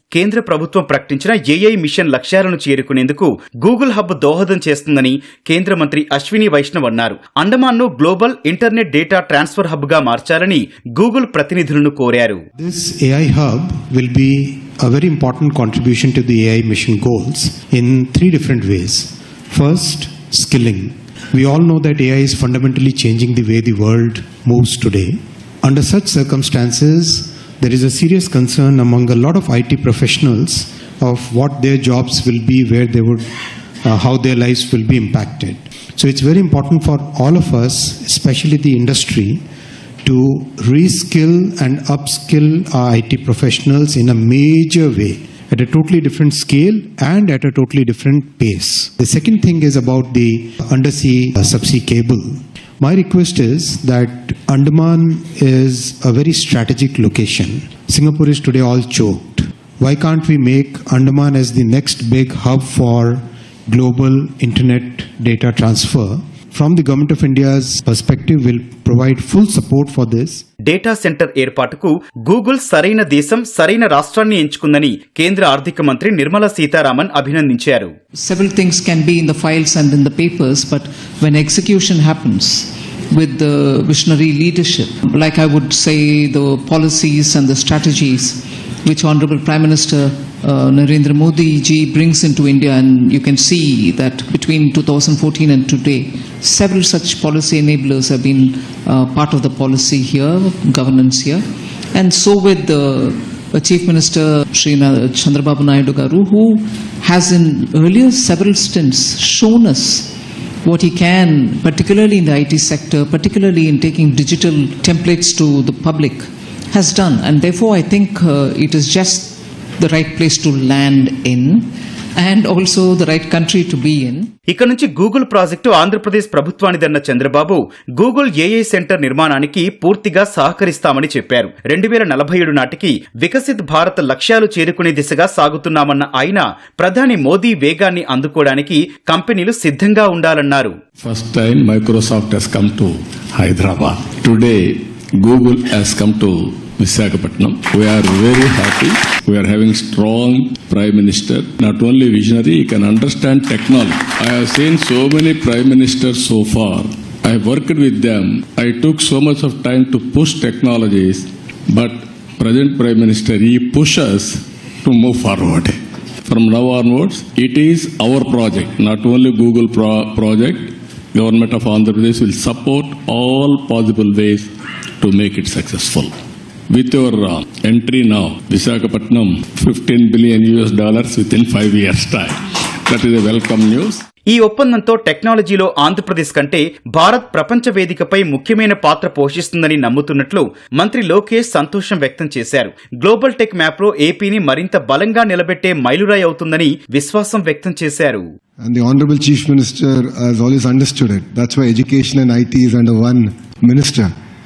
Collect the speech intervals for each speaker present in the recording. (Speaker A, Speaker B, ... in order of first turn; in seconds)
Speaker A: 0.1-12.4, 70.7-77.9, 124.5-140.7, 184.3-198.2
Speaker B: 12.6-33.2, 33.8-39.4, 40.1-70.4
Speaker C: 78.2-121.7, 122.2-124.3
Speaker D: 141.0-174.5, 175.0-176.1, 176.7-184.0
Speaker E: 198.6-204.1